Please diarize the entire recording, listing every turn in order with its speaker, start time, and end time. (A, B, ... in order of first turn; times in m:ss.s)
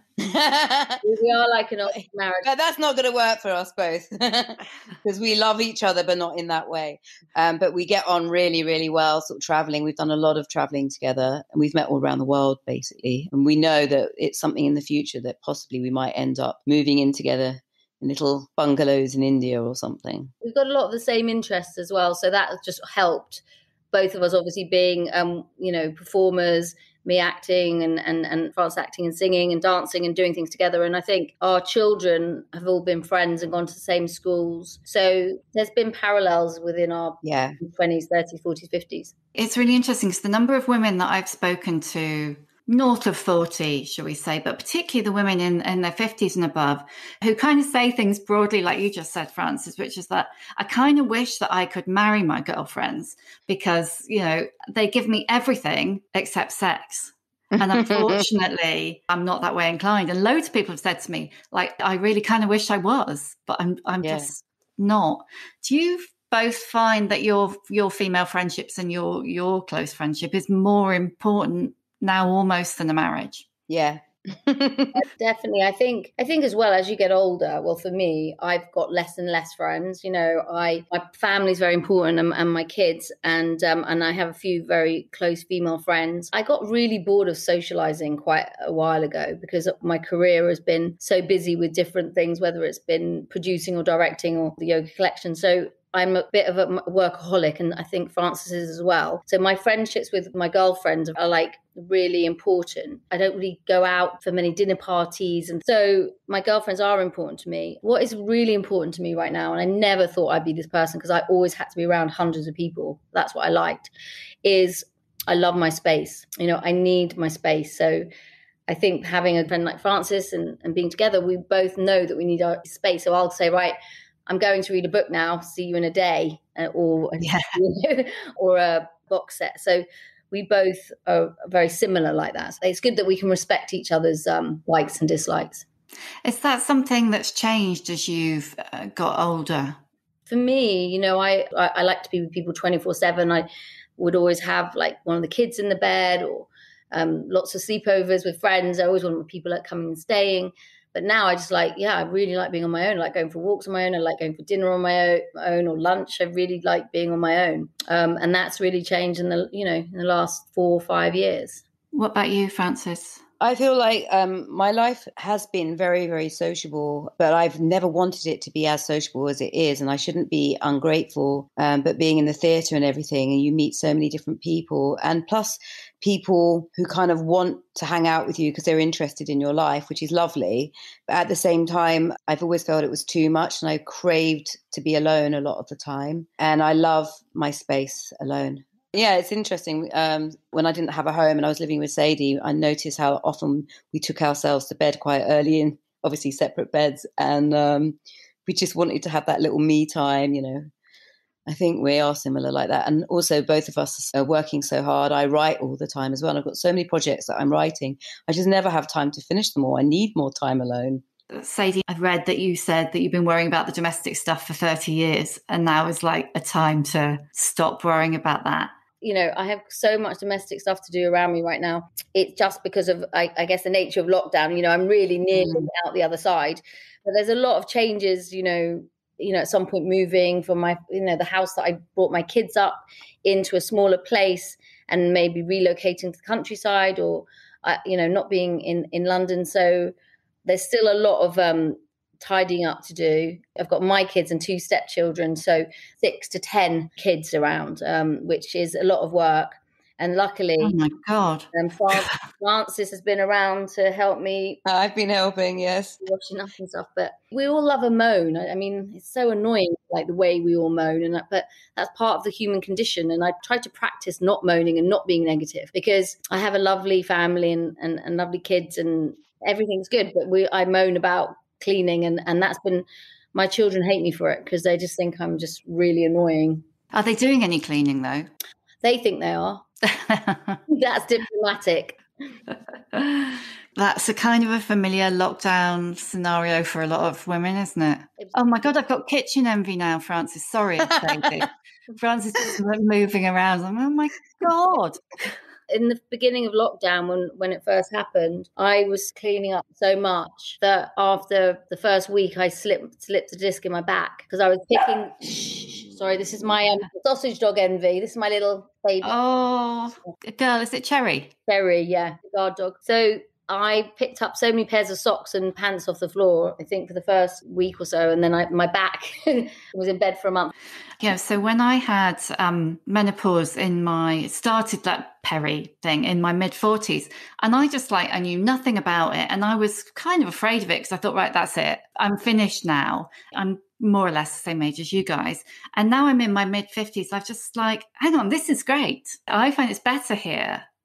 0:00.2-0:01.0 A
0:01.0-0:02.5 B
0:02.4-0:20.3 A
0:20.4-0:39.1 B
0:37.2-0:37.6 A
0:39.3-1:13.4 C
0:57.5-0:58.3 A
1:04.0-1:04.3 A
1:13.7-1:15.0 A
1:14.9-1:53.9 B
1:54.4-1:58.0 B
1:58.7-2:15.6 B
2:07.2-2:07.5 C
2:16.2-2:19.8 C
2:20.3-2:23.5 B
2:24.0-2:41.6 B
2:41.9-2:43.2 C
2:43.4-3:20.7 A
3:21.5-3:31.0 A
3:31.3-3:38.7 C
3:39.0-3:59.9 B
3:45.3-3:45.7 A
4:00.4-4:10.8 B
4:10.6-4:12.1 C
4:11.5-4:14.6 B
4:14.6-4:16.0 A
4:16.0-4:36.6 B
4:36.9-4:38.3 C
4:38.8-4:39.6 B
4:39.9-4:40.6 C
4:40.7-4:42.0 B
4:42.9-4:55.3 C
4:55.7-5:09.1 B
5:09.0-5:11.3 C
5:11.5-5:20.5 B
5:21.0-5:40.6 C